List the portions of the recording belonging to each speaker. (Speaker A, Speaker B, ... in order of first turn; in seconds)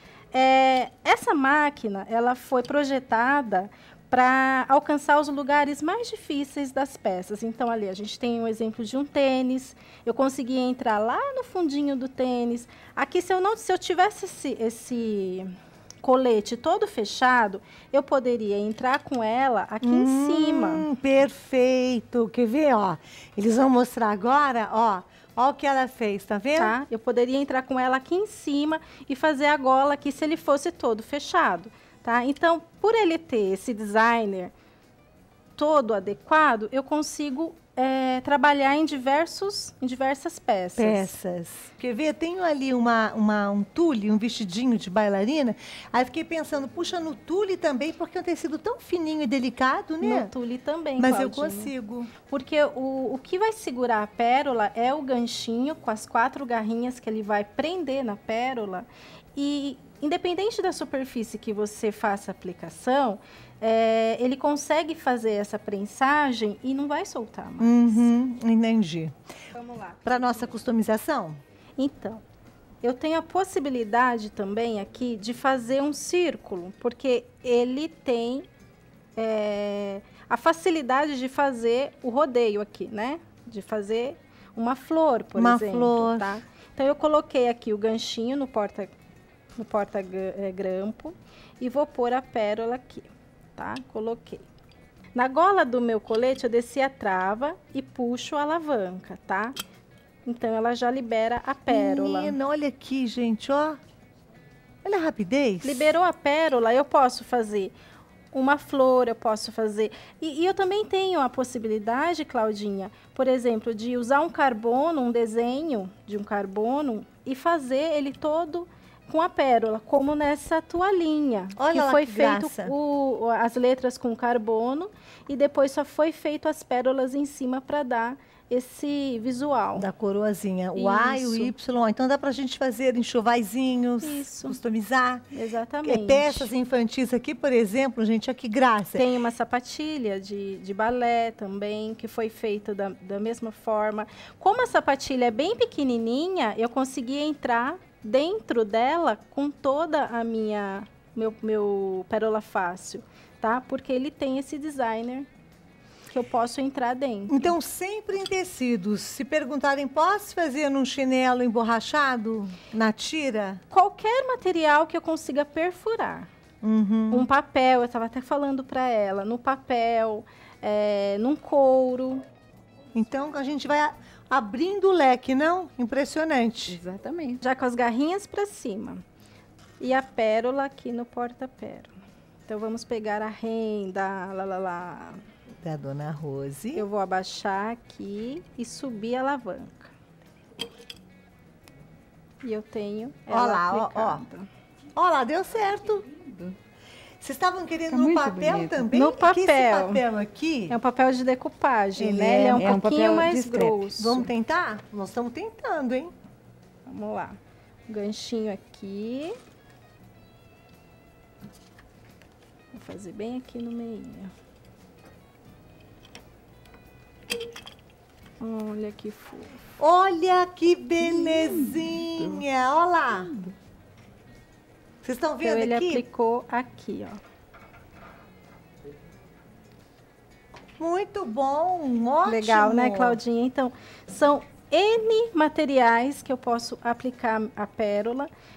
Speaker A: 0.3-15.5, 16.0-20.9, 26.6-34.5, 35.5-41.1, 50.0-68.1, 69.5-70.6, 71.8-72.2, 72.8-78.5, 79.2-88.9, 89.5-94.4, 95.1-99.5, 100.2-102.4, 105.6-107.7, 108.3-129.9, 130.8-131.5, 134.0-134.6, 135.3-136.5, 138.9-155.3, 156.1-157.5, 163.7-166.3, 167.1-172.2, 177.4-179.0, 179.8-181.9, 182.5-185.2, 186.7-189.9, 192.4-194.4, 198.9-200.0, 200.7-204.3, 206.8-209.3, 212.7-214.3, 218.4-219.6, 225.4-227.2, 232.2-238.3
Speaker B: 19.8-26.7, 40.8-50.3, 51.0-52.1, 67.6-69.1, 70.0-71.4, 85.3-86.4, 101.7-103.8, 104.8-105.8, 121.5-122.7, 129.8-135.2, 135.8-139.0, 157.3-163.6, 166.6-167.3, 172.9-176.8, 185.6-186.9, 193.3-194.2, 194.9-196.0, 197.2-200.8, 202.0-206.1, 219.8-223.3, 225.0-226.0, 230.8-233.2
Speaker C: 176.7-177.4, 196.1-196.5, 197.9-198.9, 202.5-203.9, 221.0-222.4, 223.3-223.5